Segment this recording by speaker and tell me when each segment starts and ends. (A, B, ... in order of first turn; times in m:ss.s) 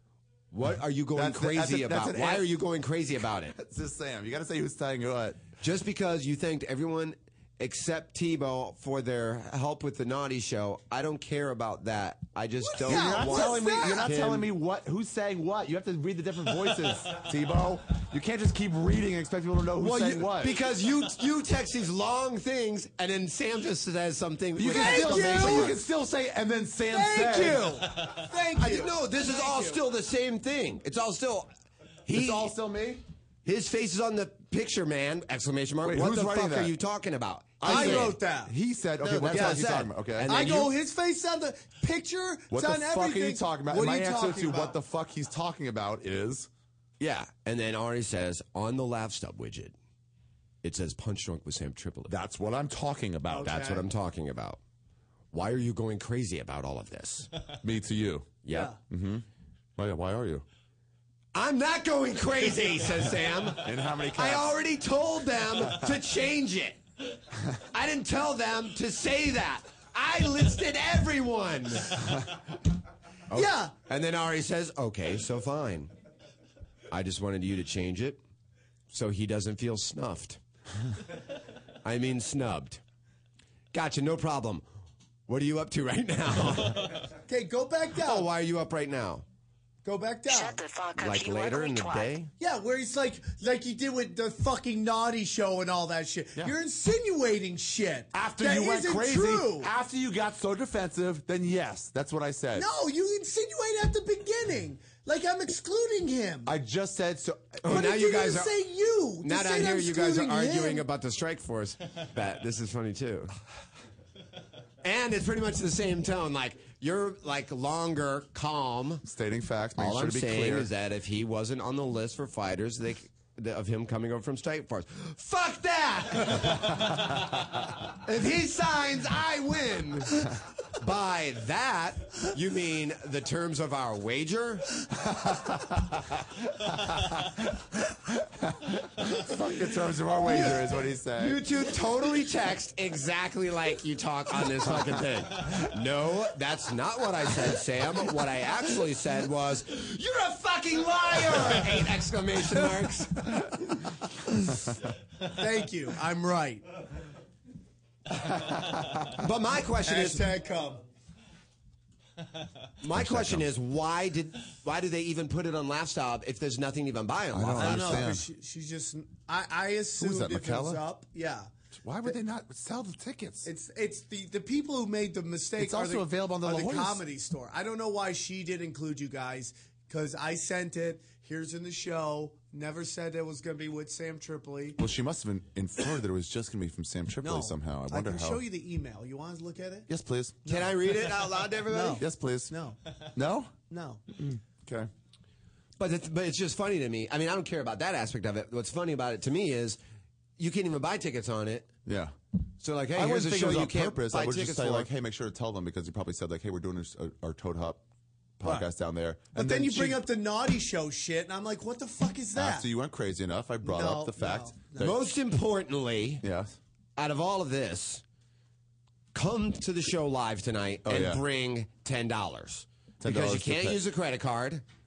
0:00.5-0:03.5 A
0:01.1-0:02.5 B
0:03.5-0:05.4 B
0:05.6-0:14.5 A
0:12.7-0:14.1 C
0:12.8-0:20.6 B
0:19.8-0:25.8 A
0:24.6-0:27.9 B
0:24.6-0:25.8 C
0:26.9-0:29.8 C
0:28.6-0:31.5 A
0:32.0-0:32.5 A
0:32.1-0:33.0 B
0:33.4-0:38.2 A
0:35.8-0:36.7 B
0:37.6-0:40.4 B
0:37.6-0:38.5 C
0:39.0-0:40.7 A
0:39.3-0:44.7 C
0:42.5-0:46.5 B
0:47.0-0:49.8 A
0:50.6-0:52.1 A
0:52.1-0:53.8 B
0:53.3-0:53.8 C
0:53.5-0:54.6 A
0:55.3-0:57.3 A
0:57.6-1:00.4 B
0:58.4-0:58.7 A
0:58.5-0:58.8 C
1:01.3-1:06.8 A
1:03.5-1:04.6 B
1:07.7-1:12.0 A
1:13.3-1:15.9 A
1:13.3-1:13.7 C
1:16.9-1:18.2 A
1:18.9-1:20.4 A
1:21.8-1:22.8 A
1:23.7-1:24.6 A
1:25.3-1:27.0 A
1:27.3-1:28.3 C
1:28.0-1:29.2 A
1:29.8-1:30.6 C
1:31.0-1:32.3 A
1:32.4-1:39.7 C
1:38.1-1:42.7 B
1:42.5-1:46.5 C
1:46.4-1:47.9 B
1:47.6-1:48.5 A
1:47.7-1:50.8 C
1:49.2-1:53.3 A
1:54.8-1:59.0 A
1:59.0-2:00.7 B
1:59.8-2:07.0 A
2:07.9-2:14.7 A
2:15.0-2:21.4 B
2:21.2-2:33.4 A
2:34.2-2:34.6 C
2:35.2-2:36.7 C
2:39.1-2:40.3 A
2:39.8-2:40.8 C
2:42.8-2:48.1 A
2:42.9-2:43.5 B
2:47.3-2:48.3 B
2:47.6-2:51.5 C
2:50.0-2:50.8 B
2:51.8-2:53.5 B
2:53.4-3:04.8 C
2:55.6-2:57.0 B
3:04.8-3:08.4 B
3:07.2-3:09.9 C
3:09.9-3:10.4 B
3:10.4-3:12.8 C
3:10.4-3:12.0 A
3:11.9-3:12.5 B
3:13.1-3:13.5 B
3:13.7-3:14.0 C
3:14.1-3:14.9 B
3:15.8-3:19.8 A
3:20.4-3:21.7 A
3:21.8-3:22.1 B
3:22.6-3:24.9 A
3:22.9-3:27.8 B
3:28.4-3:30.0 B
3:28.4-3:28.7 C
3:29.3-3:32.7 C
3:32.3-3:34.9 B
3:33.6-3:35.0 C
3:34.8-3:36.2 A
3:36.2-3:36.6 B
3:37.0-3:38.0 A
3:39.1-3:44.6 A
3:40.8-3:41.2 B
3:43.0-3:43.8 B